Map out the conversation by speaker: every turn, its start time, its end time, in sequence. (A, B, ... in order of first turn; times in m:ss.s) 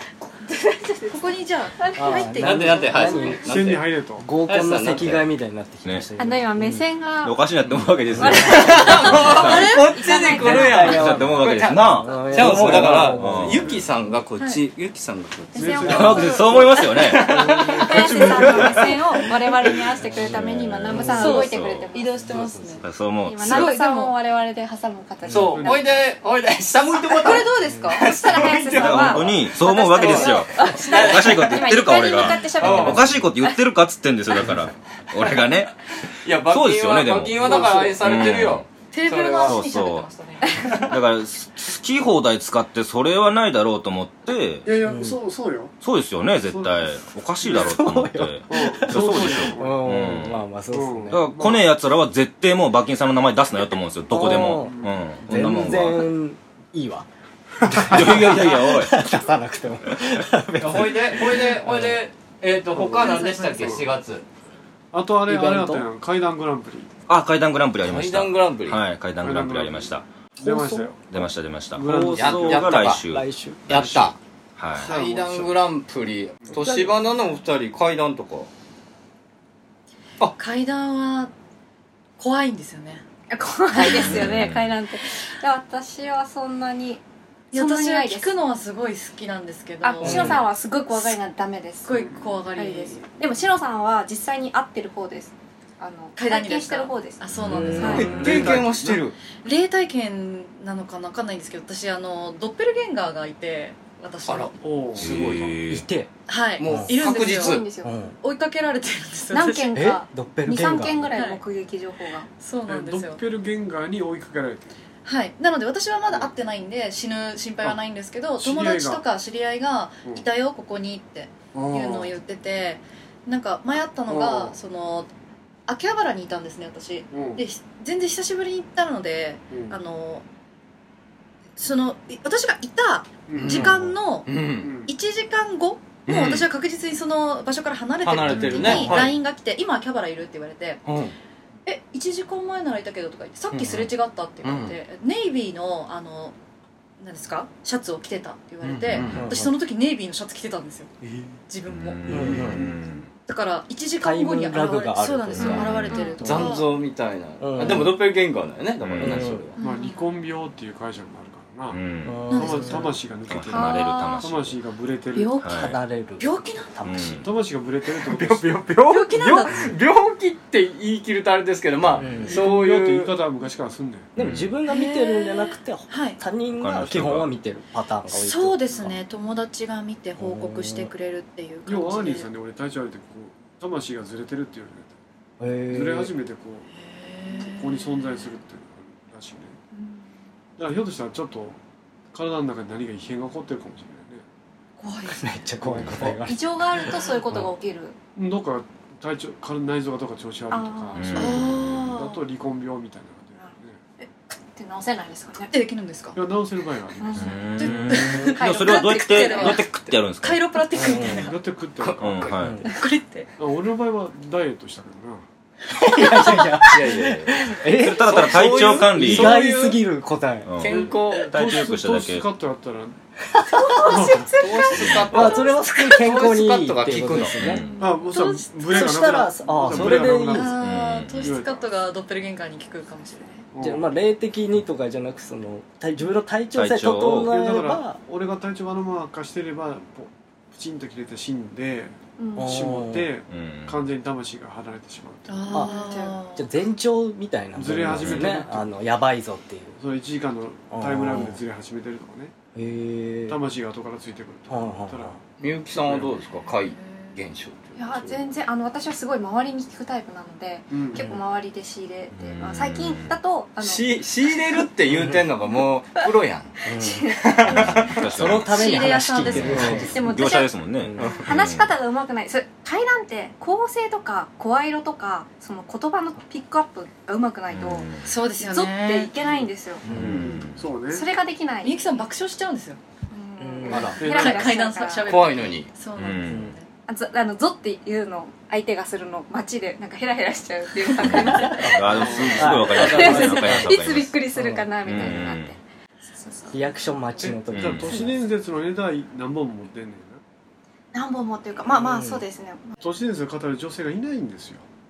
0:00.4-0:03.5 A
0:01.1-0:02.2 B
0:02.0-0:06.8 C
0:02.4-0:03.9 D
0:03.4-0:04.3 E
0:04.4-0:05.3 D
0:06.2-0:07.4 A
0:07.2-0:09.8 F
0:08.2-0:10.9 A
0:08.2-0:08.7 C
0:08.2-0:16.1 D
0:10.4-0:13.6 C
0:10.6-0:13.7 F
0:13.6-0:13.9 E
0:15.5-0:16.6 E
0:15.5-0:22.6 A
0:15.8-0:18.9 F
0:17.2-0:18.8 D
0:17.3-0:17.8 C
0:20.2-0:21.9 F
0:20.9-0:21.3 C
0:21.0-0:22.8 B
0:22.3-0:22.7 D
0:22.8-0:23.8 F
0:23.2-0:25.8 A
0:23.4-0:24.2 B
0:25.3-0:33.1 D
0:25.3-0:25.9 E
0:27.2-0:28.1 B
0:27.2-0:33.5 A
0:28.3-0:35.8 F
0:36.2-0:39.6 D
0:36.4-0:38.6 F
0:37.6-0:37.9 B
0:38.9-0:41.0 B
0:39.4-0:40.1 F
0:40.6-0:40.9 D
0:40.7-0:44.7 F
0:44.6-0:45.7 E
0:44.8-0:45.2 C
0:45.8-0:50.4 F
0:46.4-0:46.9 E
0:47.4-0:51.2 C
0:48.5-0:50.1 E
0:50.7-0:51.7 E
0:51.1-0:56.1 F
0:54.1-0:54.7 C
0:54.6-0:55.0 E
0:55.2-0:57.1 C
0:57.7-1:02.0 C
0:57.8-0:59.0 F
1:00.6-1:04.2 D
1:02.9-1:03.8 B
1:04.9-1:06.9 E
1:05.3-1:05.8 C
1:07.1-1:10.0 F
1:07.8-1:08.8 D
1:09.2-1:12.9 E
1:10.4-1:10.9 C
1:11.1-1:14.9 F
1:12.1-1:13.0 D
1:13.1-1:13.6 C
1:13.7-1:14.2 D
1:13.7-1:14.1 E
1:14.8-1:15.7 E
1:14.8-1:18.5 D
1:16.5-1:16.9 C
1:20.3-1:21.3 B
1:22.2-1:23.0 B
1:23.3-1:27.0 A
1:23.7-1:24.2 B
1:23.8-1:24.7 F
1:27.5-1:31.2 B
1:27.5-1:28.3 A
1:29.8-1:31.9 A
1:30.0-1:30.4 C
1:31.8-1:33.1 B
1:31.9-1:32.3 E
1:32.5-1:38.1 A
1:36.2-1:38.2 B
1:37.3-1:38.6 F
1:37.5-1:38.5 C
1:37.8-1:39.0 E
1:37.9-1:39.2 D
1:39.4-1:44.6 B
1:44.2-1:45.6 D
1:44.6-1:45.4 E
1:45.0-1:45.8 F
1:45.7-1:46.1 C
1:46.3-1:49.9 B
1:46.6-1:47.6 D
1:46.7-1:46.9 C
1:47.0-1:48.0 A
1:47.8-1:48.1 C
1:49.3-1:52.3 A
1:49.7-1:51.1 C
1:51.1-1:51.4 B
1:52.4-1:53.2 B
1:52.6-1:54.7 E
1:55.0-2:05.1 B
1:56.1-1:56.3 E
1:58.4-1:59.0 E
2:01.5-2:02.1 E
2:04.1-2:04.6 E
2:05.7-2:10.2 B
2:07.1-2:07.4 E
2:09.5-2:09.8 E
2:11.6-2:14.3 B
2:13.3-2:13.7 E
2:13.4-2:14.7 D
2:14.6-2:14.9 E
2:14.8-2:20.8 B
2:16.1-2:16.5 D
2:18.0-2:19.1 D
2:20.8-2:21.1 D
2:21.6-2:26.4 B
2:23.5-2:23.9 D
2:24.4-2:24.8 D
2:27.0-2:30.9 B
2:28.6-2:29.3 D
2:29.1-2:29.5 C
2:31.0-2:31.4 D
2:31.5-2:32.7 B
2:31.6-2:33.1 F
2:32.1-2:32.6 C
2:33.2-2:36.7 B
2:34.0-2:36.5 C
2:35.3-2:36.2 F
2:35.9-2:36.2 A
2:36.2-2:39.6 D
2:37.4-2:38.0 C
2:38.8-2:39.3 F
2:39.0-2:39.4 C
2:39.6-2:40.1 B
2:39.6-2:41.8 E
2:41.7-2:42.2 F
2:42.0-2:43.0 C
2:42.3-2:43.0 B
2:42.3-2:45.4 E
2:43.3-2:44.6 F
2:43.5-2:44.2 A
2:43.7-2:44.2 B
2:45.1-2:45.6 B
2:45.4-2:45.8 F
2:45.4-2:47.2 C
2:46.2-2:46.8 B
2:46.8-2:47.3 F
2:47.2-2:48.8 E
2:48.0-2:53.2 D
2:48.8-2:49.7 B
2:52.0-2:52.4 C
2:52.3-2:54.1 E
2:54.2-2:59.0 C
2:54.2-2:54.6 F
2:54.7-2:56.2 B
2:56.6-2:57.3 F
2:58.1-3:02.3 B
3:00.2-3:00.9 C
3:01.6-3:05.0 E
3:05.4-3:06.1 C
3:05.7-3:06.7 E
3:06.7-3:08.3 B
3:07.3-3:09.6 E
3:09.7-3:10.1 B
3:10.6-3:11.6 E
3:12.1-3:14.2 E
3:14.8-3:15.5 B
3:15.1-3:16.4 C
3:15.7-3:16.0 F
3:15.7-3:16.2 E
3:16.2-3:18.0 A
3:16.8-3:17.3 B
3:18.2-3:23.8 E
3:20.5-3:21.0 A
3:20.9-3:21.6 F
3:21.1-3:22.2 B
3:24.5-3:25.5 A
3:25.4-3:26.2 B
3:26.2-3:27.2 E
3:27.0-3:27.3 A
3:27.0-3:31.4 B
3:27.1-3:30.5 F
3:28.6-3:29.6 A
3:30.7-3:31.3 C
3:31.2-3:32.3 E
3:31.8-3:32.4 D
3:32.0-3:32.6 F
3:32.4-3:32.7 C
3:32.6-3:33.3 B
3:33.4-3:35.2 E
3:35.8-3:40.5 C
3:36.6-3:37.5 D
3:37.7-3:39.5 F
3:38.0-3:39.8 D
3:40.4-3:42.2 F
3:40.6-3:41.3 D
3:40.7-3:43.0 E
3:43.3-3:44.0 C
3:43.5-3:45.0 B
3:43.8-3:44.3 E
3:44.4-3:47.6 D
3:44.7-3:45.4 F
3:45.1-3:47.7 C
3:47.1-3:47.8 F
3:47.7-3:48.0 A
3:47.8-3:49.2 B
3:47.8-3:51.7 E
3:48.7-3:50.5 C
3:49.8-3:53.4 B
3:50.6-3:51.4 F
3:53.5-3:53.9 E
3:53.6-3:58.0 C
3:56.5-3:57.3 F
3:57.3-4:05.5 E
4:02.2-4:02.6 A
4:02.4-4:03.1 C
4:03.3-4:03.8 F
4:05.3-4:06.5 B
4:05.5-4:09.8 C
4:05.5-4:06.2 A
4:07.5-4:08.7 E
4:07.8-4:08.4 F
4:09.8-4:12.3 E
4:10.7-4:11.4 C
4:12.5-4:13.4 C
4:13.3-4:15.2 E
4:14.5-4:15.2 C
4:15.4-4:18.2 D
4:15.7-4:16.1 E
4:16.5-4:17.1 B
4:17.8-4:23.8 A
4:20.7-4:21.1 E
4:20.9-4:21.2 C
4:22.1-4:23.2 F
4:23.6-4:26.5 D
4:24.9-4:25.2 C
4:26.7-4:27.0 C
4:26.8-4:27.4 A
4:27.2-4:27.8 D
4:27.4-4:31.7 F
4:27.6-4:30.0 C
4:28.6-4:39.8 A
4:28.6-4:29.9 B
4:29.5-4:29.8 D
4:30.8-4:31.2 C
4:31.0-4:31.2 B
4:37.5-4:38.1 F
4:38.0-4:39.1 B
4:39.2-4:41.1 E
4:39.8-4:40.7 F
4:39.8-4:40.4 C
4:40.8-4:42.0 A
4:41.6-4:42.8 B
4:43.1-4:45.1 A
4:43.4-4:43.9 C
4:43.6-4:46.7 B
4:43.7-4:44.0 D
4:44.0-4:44.6 E
4:45.0-4:45.7 D
4:46.0-4:46.5 F
4:46.3-4:46.5 C
4:46.9-4:55.6 A
4:51.0-4:54.2 F
4:51.1-4:53.8 C
4:54.3-4:55.2 C
4:54.8-4:55.6 F
4:56.1-4:56.7 A
4:56.5-4:58.1 C
4:57.2-5:00.2 E
4:57.4-4:57.9 F
5:00.9-5:02.7 A
5:01.7-5:02.2 C
5:02.8-5:04.6 E